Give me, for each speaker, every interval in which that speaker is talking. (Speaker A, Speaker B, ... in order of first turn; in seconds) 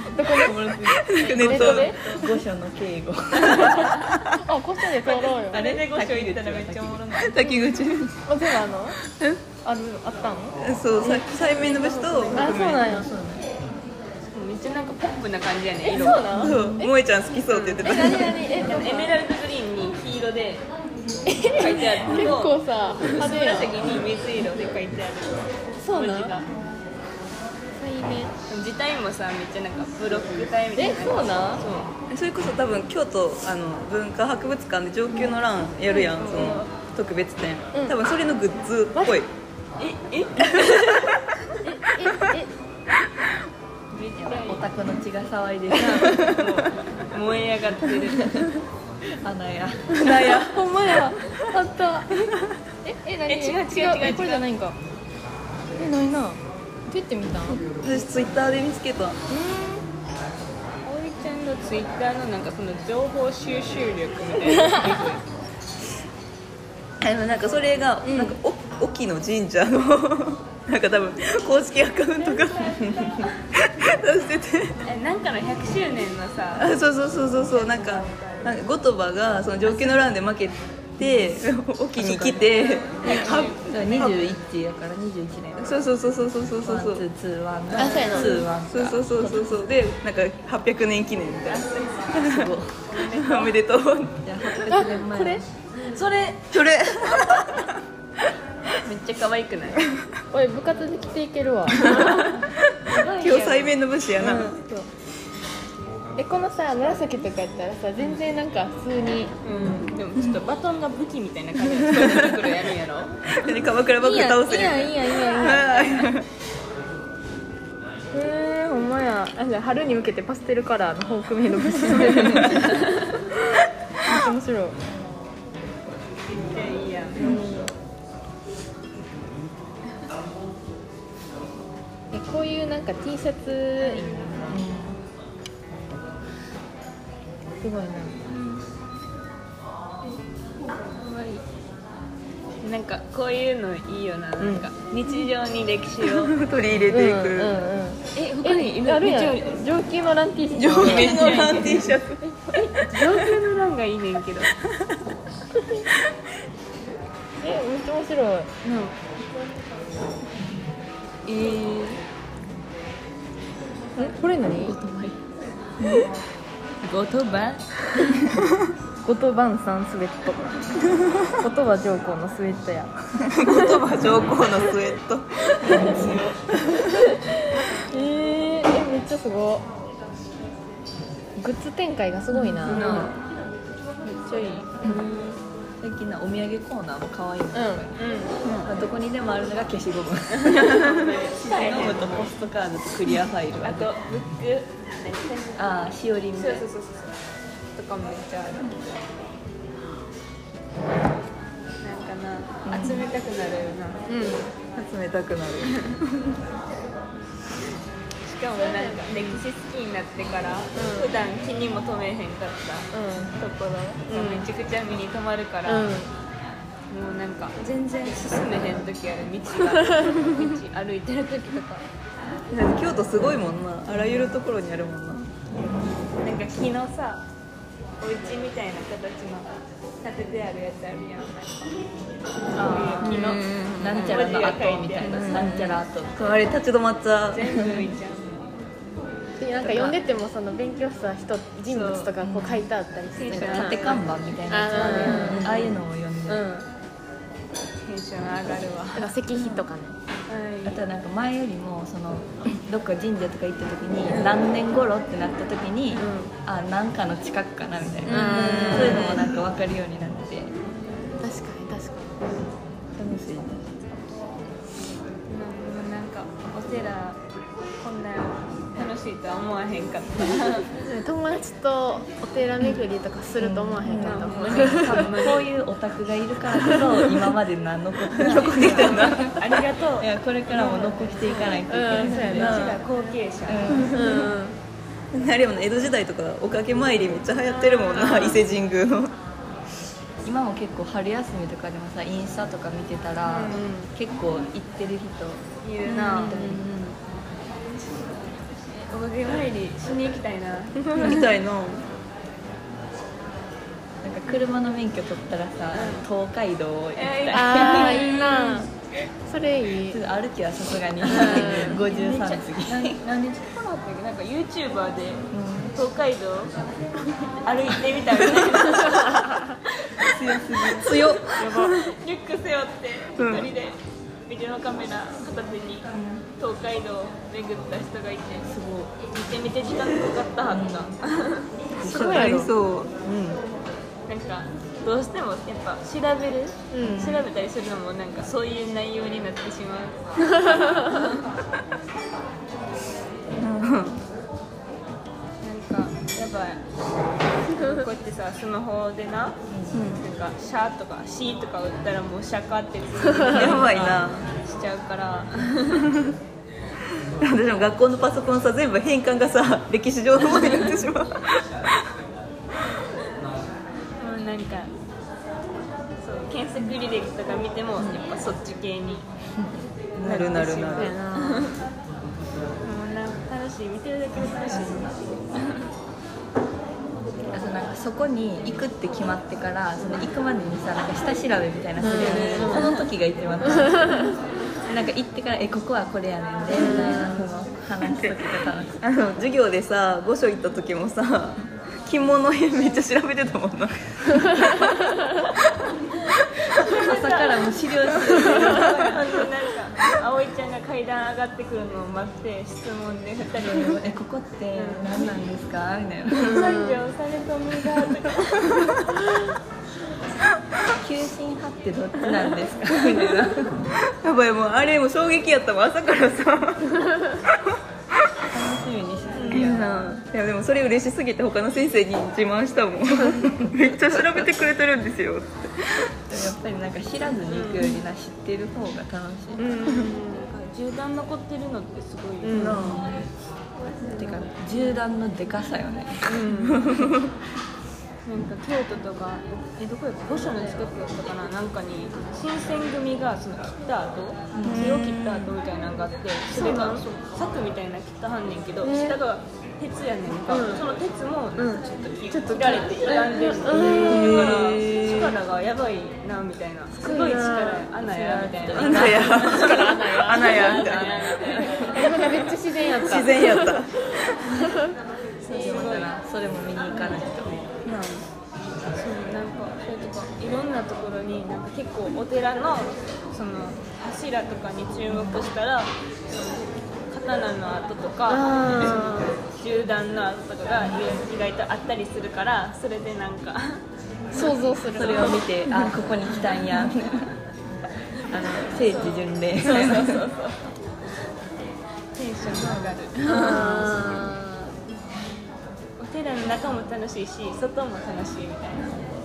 Speaker A: 0.1-0.8, 1.3-2.0, 4.4-5.6, 8.2-9.0, 9.6-10.6, 12.3-13.1, 15.8-16.9, 17.5-19.1, 21.3-23.7, 25.8-26.4, 27.8-28.3, 30.7-31.6, 41.6-42.5, 50.0-52.1, 52.8-54.8, 55.8-57.6, 59.3-59.8, 68.0-68.3, 83.0-83.3, 87.8-88.4, 94.7-95.4, 100.3-102.4, 104.2-104.8, 106.2-109.3, 114.0-116.1, 118.1-122.8, 124.0-124.8, 127.2-127.7, 132.1-134.6, 137.6-138.2, 146.9-152.6, 155.5-155.8, 157.4-158.5, 164.0-164.8, 169.0-170.5, 171.4-173.8, 175.6-176.2, 177.1-179.7, 181.4-183.1, 184.4-185.3, 187.5-187.8, 204.1-204.5, 208.6-209.4, 210.7-211.1, 212.9-213.3, 214.1-214.5, 215.7-216.1, 219.8-220.3, 233.0-233.7, 239.4-245.6, 246.3-246.6, 248.9-249.9, 258.1-259.2, 261.2-262.3, 270.8-275.1, 281.7-282.6, 283.9-284.6, 287.6-288.3, 293.3-293.9, 307.3-308.7, 309.2-310.0, 311.1-311.8, 321.4-321.7, 331.8-332.5, 336.7-337.1, 340.3-341.1, 370.4-371.5, 381.8-382.7, 383.4-384.1, 386.6-387.2, 406.2-406.8, 429.4-429.9, 432.2-432.7, 446.3-446.8, 448.6-449.0, 450.3-450.6, 451.4-454.4, 456.8-457.6, 458.5-460.6, 461.6-463.5, 464.4-464.7, 478.1-479.2, 484.1-485.7, 493.0-494.5
Speaker B: 0.2-4.0, 5.5-7.5, 12.5-13.5, 16.4-16.7, 44.2-46.4, 49.2-50.2, 81.0-81.4, 82.0-82.6, 83.1-85.8, 86.6-89.6, 92.1-92.8, 94.2-95.4, 134.5-135.0, 175.7-176.2, 185.8-188.1, 188.6-193.9, 195.6-196.6, 202.7-203.0, 232.6-236.3, 242.2-242.7, 243.3-246.4, 250.6-260.5, 263.0-263.7, 273.4-282.8, 283.4-284.3, 290.2-296.9, 304.0-308.1, 309.9-313.0, 315.3-315.7, 325.9-326.2, 328.5-328.9, 330.4-331.0, 331.8-332.5, 333.1-333.4, 336.8-337.2, 349.5-349.8, 353.3-353.9, 369.4-370.4, 374.5-374.9, 377.3-384.1, 384.7-388.8, 396.6-399.2, 403.4-406.5, 410.8-413.6, 418.3-420.0, 423.2-424.2, 426.1-429.8, 432.4-433.1, 433.9-437.0, 444.3-445.0, 453.5-454.8, 457.9-459.5, 460.5-461.7, 465.3-467.4, 474.9-475.2, 484.7-487.2, 488.1-490.1
Speaker C: 0.4-2.3, 3.5-4.4, 7.2-8.2, 9.1-9.4, 10.6-12.9, 16.3-18.4, 32.1-39.3, 40.4-41.2, 46.0-46.6, 50.0-50.6, 57.5-59.2, 67.0-74.8, 76.6-84.2, 85.6-87.0, 87.8-94.2, 96.5-97.7, 101.7-102.5, 103.2-104.6, 112.0-112.3, 113.3-116.2, 121.9-122.7, 146.0-147.5, 150.5-153.1, 173.2-177.2, 182.7-183.2, 204.7-206.4, 222.5-225.3, 233.0-234.2, 235.0-237.8, 258.5-259.1, 278.2-279.3, 282.4-282.8, 285.1-289.1, 295.9-296.4, 300.9-301.9, 320.0-321.8, 323.2-323.5, 331.8-333.0, 343.4-344.0, 349.7-350.0, 353.2-354.3, 355.7-356.1, 357.2-361.6, 370.0-371.0, 387.9-395.3, 412.9-417.6, 419.3-425.9, 432.5-432.8, 436.7-437.1, 444.4-445.3, 453.6-455.2, 458.5-461.5, 462.7-463.9
Speaker D: 5.0-7.5, 11.0-12.6, 14.3-16.3, 17.5-20.6, 21.6-26.5, 28.5-31.9, 35.9-36.7, 39.8-41.1, 43.9-44.6, 46.0-48.5, 53.3-54.5, 60.8-65.2, 72.2-73.2, 74.8-76.7, 77.4-78.6, 82.6-84.3, 91.5-92.2, 92.9-93.5, 95.8-96.5, 98.8-99.9, 101.8-104.6, 109.4-113.4, 126.3-127.3, 133.8-134.4, 138.3-138.6, 140.9-141.4, 142.6-146.4, 148.1-149.6, 150.8-151.9, 152.5-154.5, 158.6-158.9, 161.3-162.0, 166.8-167.9, 182.7-183.1, 184.0-184.8, 188.0-188.5, 190.3-192.3, 193.6-195.8, 196.3-197.1, 197.8-198.7, 201.8-204.0, 208.2-216.0, 216.9-221.8, 226.2-227.2, 228.0-229.5, 230.0-231.7, 232.6-235.6, 237.3-238.5, 241.7-242.1, 243.2-244.1, 244.7-245.7, 247.8-249.1, 250.3-250.8, 256.0-256.3, 258.1-259.2, 265.3-267.2, 267.8-270.7, 274.0-275.5, 278.2-283.9, 287.9-288.4, 295.6-296.4, 298.7-301.2, 305.7-306.1, 306.9-308.6, 311.1-316.5, 317.4-319.4, 320.0-331.5, 334.1-341.2, 345.4-346.6, 347.4-349.4, 349.9-355.9, 364.0-364.7, 366.0-369.1, 370.3-371.6, 372.6-375.5, 381.8-382.9, 396.5-403.8, 404.5-405.2, 406.1-408.8, 419.1-419.5, 427.3-427.8, 429.4-432.9, 436.1-436.7, 438.1-462.2, 465.2-465.9, 466.7-468.1, 468.7-483.6, 484.1-485.2, 488.1-490.5, 491.9-494.0, 495.8-498.7